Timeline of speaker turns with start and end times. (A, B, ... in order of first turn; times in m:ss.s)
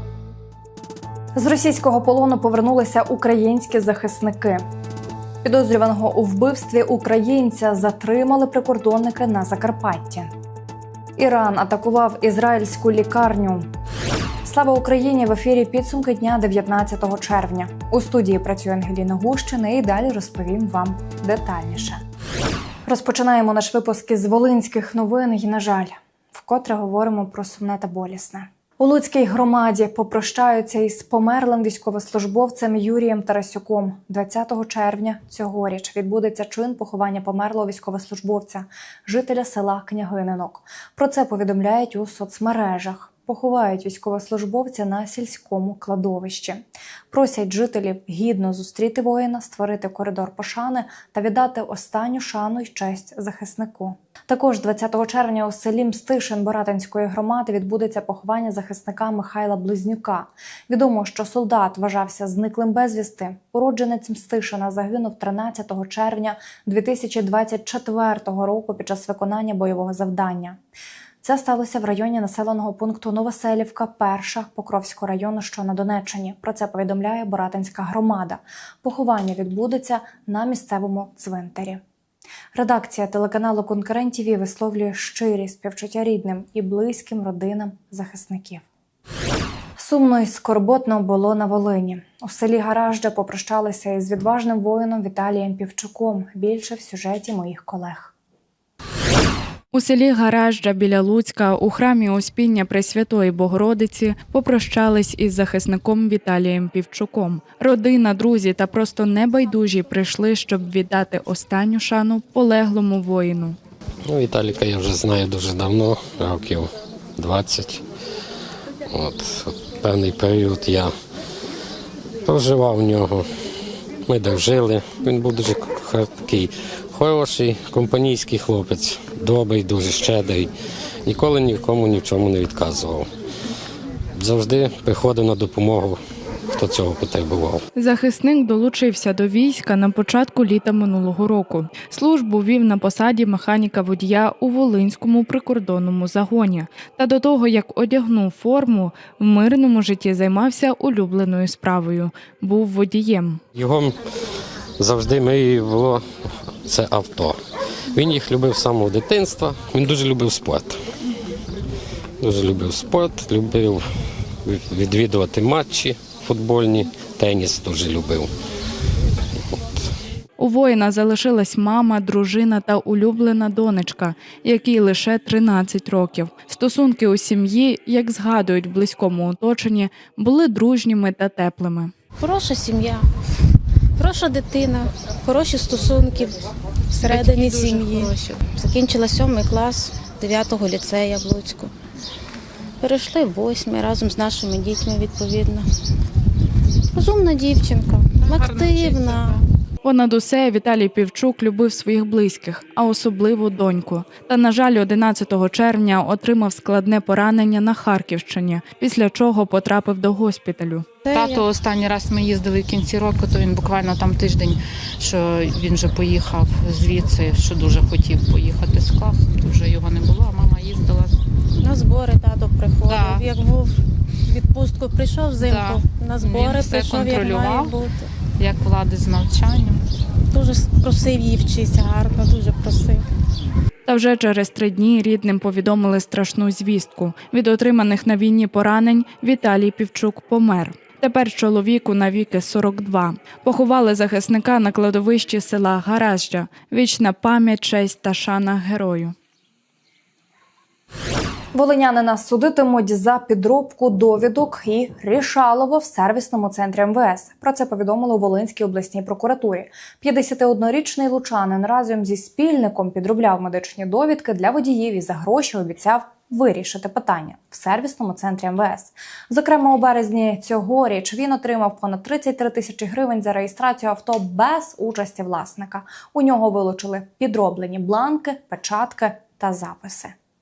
0:01.4-0:04.6 A
0:05.4-0:10.3 A
0:11.2-0:13.7 A
0:14.4-0:22.0 A
0:22.9-1:10.6 A
1:11.2-1:21.8 A
1:22.5-1:28.7 A
1:29.8-1:38.1 A
1:39.7-1:53.6 B
1:54.1-1:57.8 C
1:58.9-2:00.9 C
2:02.3-2:03.2 C
2:04.1-2:10.5 C
2:11.0-2:13.1 C
2:14.2-2:16.0 C
2:16.5-2:17.6 C
2:17.8-2:33.4 B
2:33.5-2:34.0 C
2:34.8-2:36.0 C
2:36.6-2:37.4 C
2:37.9-2:40.8 C
2:42.2-2:43.8 C
2:44.4-2:48.3 C
2:50.4-3:01.9 B
3:02.2-3:03.1 D
3:04.0-3:11.7 D
3:07.2-3:08.4 E
3:12.8-3:15.7 D
3:16.9-3:19.4 D
3:18.2-3:19.0 E
3:19.8-3:31.0 B
3:31.0-3:31.4 D
3:31.1-3:41.2 E
3:41.6-3:48.1 D
3:42.9-3:43.2 E
3:45.4-3:47.7 E
3:48.4-3:49.8 E
3:50.3-3:53.0 D
3:53.9-4:09.2 B
4:11.5-4:40.1 A